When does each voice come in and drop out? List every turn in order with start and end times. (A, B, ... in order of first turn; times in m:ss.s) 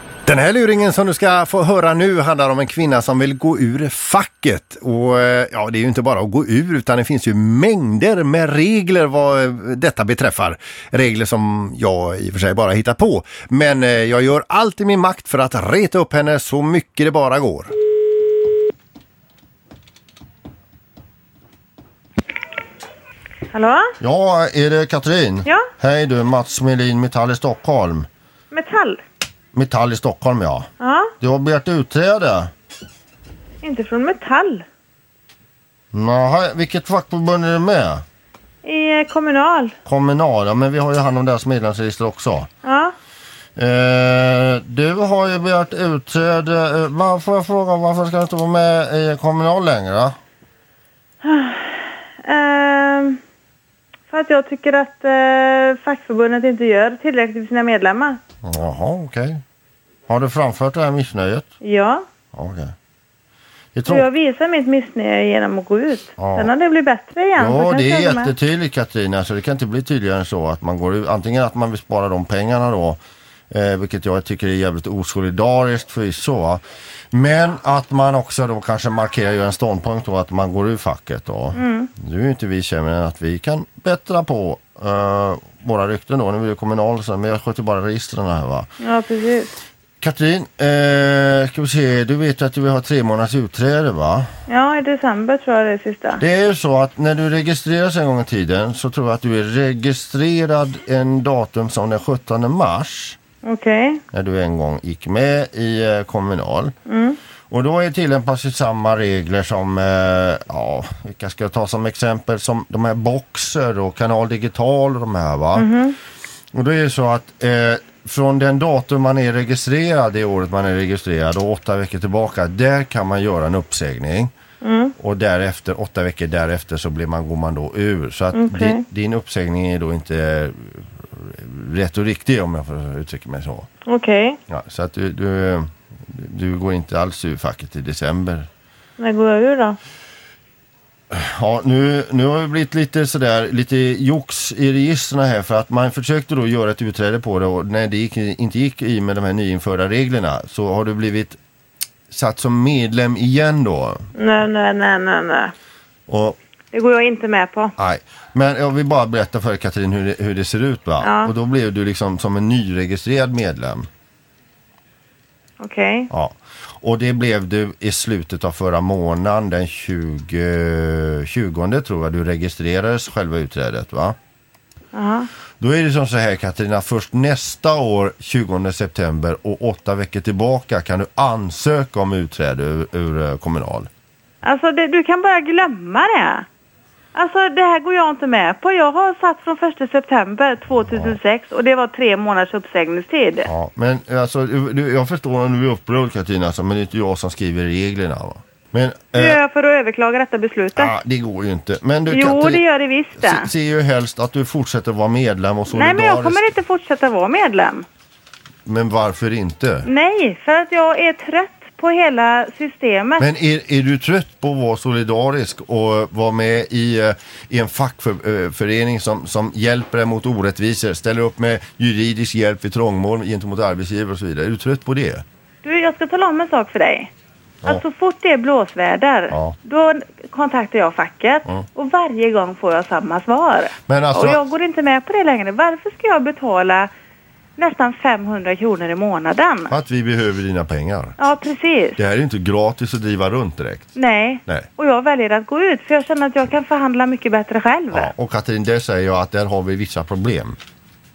0:00.3-0:17.7 A
0:23.5-0:23.9 B
0:24.0-0:28.1 A
0:28.5-0:29.0 B
0:29.5-0:30.7 A
0:30.8-0:31.1 B
0:31.2-0:32.5 A
0:33.6-0:34.6 B
0:35.9-0:38.0 A
0:38.6-0:39.8 B
0:39.9-0:42.5 A
0:42.6-0:42.9 B
0:43.6-0:50.2 A
0:51.2-0:53.2 B
0:54.1-0:58.2 B
0:58.4-0:59.4 A
1:00.1-1:01.5 A
1:01.6-1:02.0 B
1:02.3-1:02.7 A
1:03.8-1:04.1 A
1:03.9-1:08.3 B
1:06.2-1:06.5 A
1:07.4-1:28.7 A
1:21.6-1:21.9 B
1:28.8-1:29.5 B
1:30.0-1:34.3 A
1:34.5-1:36.2 B
1:36.2-1:43.2 A
1:43.4-1:44.0 B
1:44.1-1:46.7 A
1:46.9-1:47.2 B
1:47.5-1:55.7 A
1:55.6-1:56.0 B
1:56.5-2:04.3 A
2:04.6-2:04.9 B
2:05.0-2:13.7 A
2:08.3-2:08.8 B
2:13.9-2:14.4 B
2:14.5-2:18.5 A
2:19.0-2:19.8 B
2:21.1-2:31.4 A
2:32.1-2:34.1 A
2:34.2-2:35.5 B
2:36.1-2:36.4 A
2:36.7-2:37.7 B
2:37.8-2:43.9 A
2:41.0-2:41.3 B
2:45.6-2:46.1 B
2:46.1-2:54.2 A
2:54.9-2:55.3 B
2:55.6-3:03.9 A
3:04.4-3:06.5 B
3:07.1-3:13.5 B
3:10.9-3:11.2 A
3:13.4-3:19.4 A
3:19.2-3:20.9 B
3:20.8-3:22.6 A
3:22.1-3:23.5 B
3:23.2-3:26.4 A
3:25.7-3:27.9 B
3:28.7-3:29.9 A
3:29.9-3:33.3 B
3:33.2-3:45.2 A
3:45.6-3:47.1 B
3:47.6-3:56.9 B
3:49.3-3:49.6 A
3:53.9-3:54.4 A
3:57.6-3:59.7 B
3:59.7-4:01.2 A
4:01.2-4:02.0 B
4:02.0-4:03.9 A
4:04.0-4:08.1 B
4:07.9-4:10.6 A